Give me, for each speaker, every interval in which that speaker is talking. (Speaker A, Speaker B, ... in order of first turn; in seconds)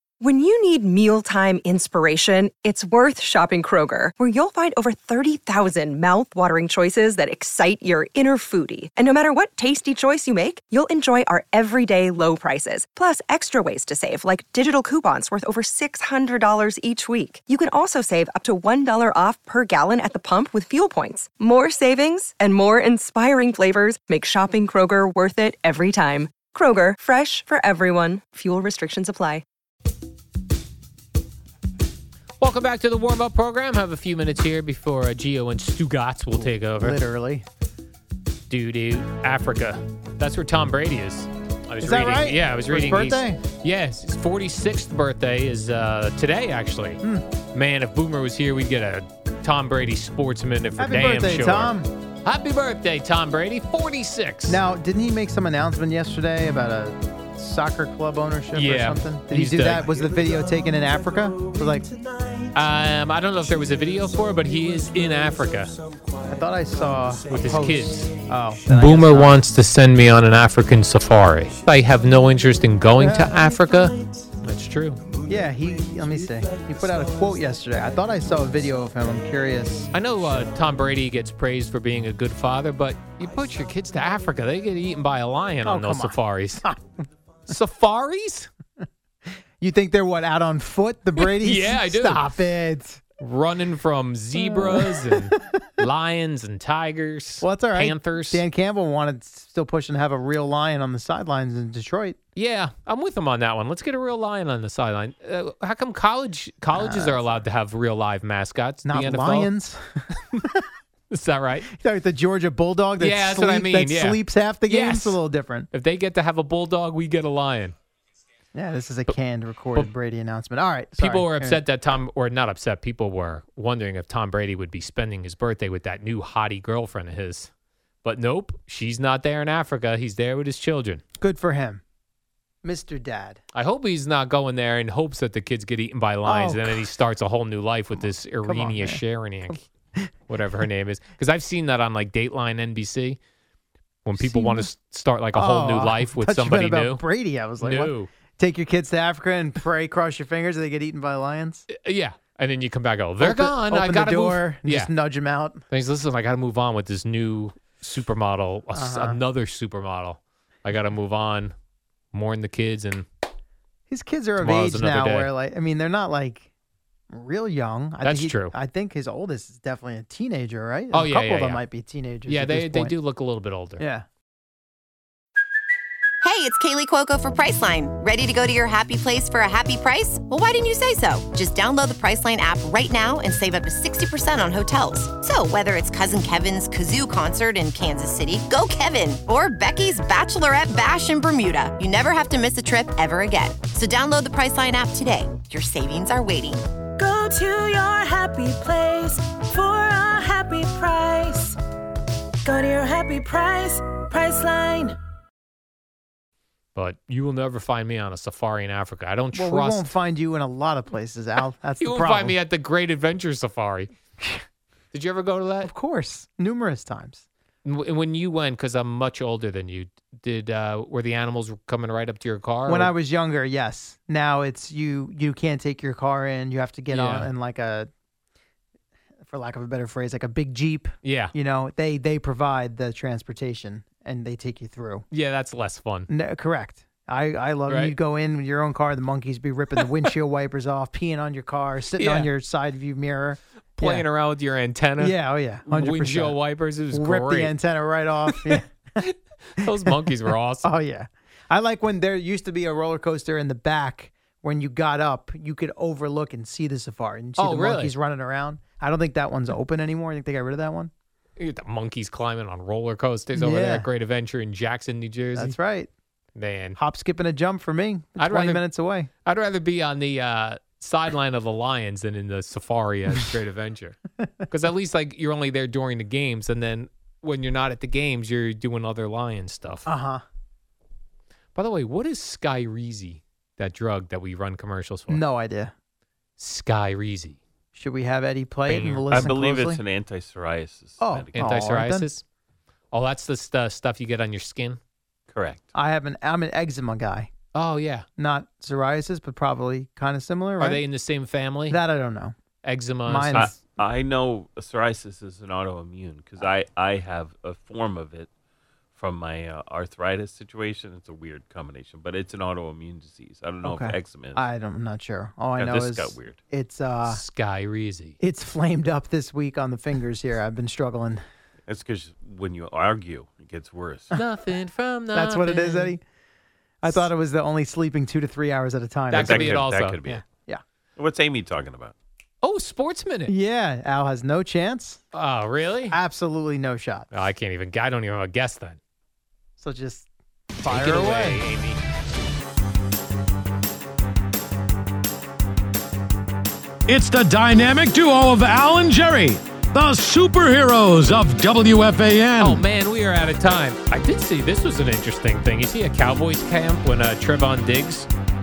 Speaker A: 0.2-29.4
Speaker B: 32.4-37.0, 38.5-47.0, 47.5-54.6, 58.5-59.9, 62.5-65.7, 67.3-68.1, 68.7-75.0, 79.9-86.7, 87.5-88.5, 91.2-92.5, 93.2-98.4, 102.3-109.5, 111.1-111.7, 113.0-115.2, 115.7-117.7, 121.0-127.5, 128.0-131.0, 133.5-139.7, 140.3-143.2, 144.0-147.0, 147.6-148.1, 151.7-154.9, 155.7-161.5, 162.1-163.1, 164.4-165.3, 168.0-168.5, 170.9-171.6, 172.2-173.8, 206.7-209.9, 211.8-213.9, 214.9-215.7, 217.6-222.9, 226.9-227.3, 231.0-231.3, 235.1-236.1, 237.7-237.9, 242.0-242.3, 243.8-247.5, 248.3-250.7, 257.4-257.9, 261.4-265.6, 266.4-266.8, 268.2-268.6, 269.2-274.0, 274.5-279.9, 281.5-285.2, 286.4-287.4, 288.7-289.2, 291.3-292.2, 292.9-294.8, 297.5-298.1, 300.6-301.8, 302.6-303.5, 317.1-318.1, 324.1-325.9, 329.1-330.0, 332.4-333.3, 335.1-336.0, 337.1-338.8, 340.6-341.8, 352.4-358.1
Speaker C: 36.3-37.4, 41.8-43.4, 50.8-51.9, 54.5-61.9, 66.3-69.4, 73.0-73.4, 75.2-79.9, 85.6-86.8, 89.6-93.0, 94.3-95.8, 97.4-102.2, 106.7-107.4, 108.8-110.6, 111.7-115.7, 118.5-121.6, 131.2-131.8, 132.6-133.4, 136.2-136.9, 138.0-139.0, 144.2-144.7, 145.3-151.7, 153.2-155.6, 158.7-159.2, 163.9-166.5, 167.1-172.9, 173.8-174.1, 209.3-212.4, 215.6-217.2, 222.7-227.9, 229.2-235.0, 236.1-244.1, 245.0-249.0, 250.6-260.9, 263.3-263.9, 265.3-265.9, 266.8-269.1, 279.9-280.2, 285.1-285.7, 287.7-289.8, 291.0-292.1, 295.7-297.3, 298.2-300.9, 301.7-302.3, 303.0-303.6, 313.6-317.2, 318.2-321.2, 325.1-326.0, 326.8-330.6, 333.3-335.0, 335.9-337.1, 339.6-340.1, 340.6-341.4
Speaker D: 176.2-196.6
Speaker E: 197.0-201.5, 202.4-204.9
Speaker F: 289.1-291.6, 295.3-295.6, 303.4-308.3, 308.9-314.4, 315.6-316.4, 321.7-324.1, 329.2-330.2, 331.0-331.9
Speaker G: 346.9-352.6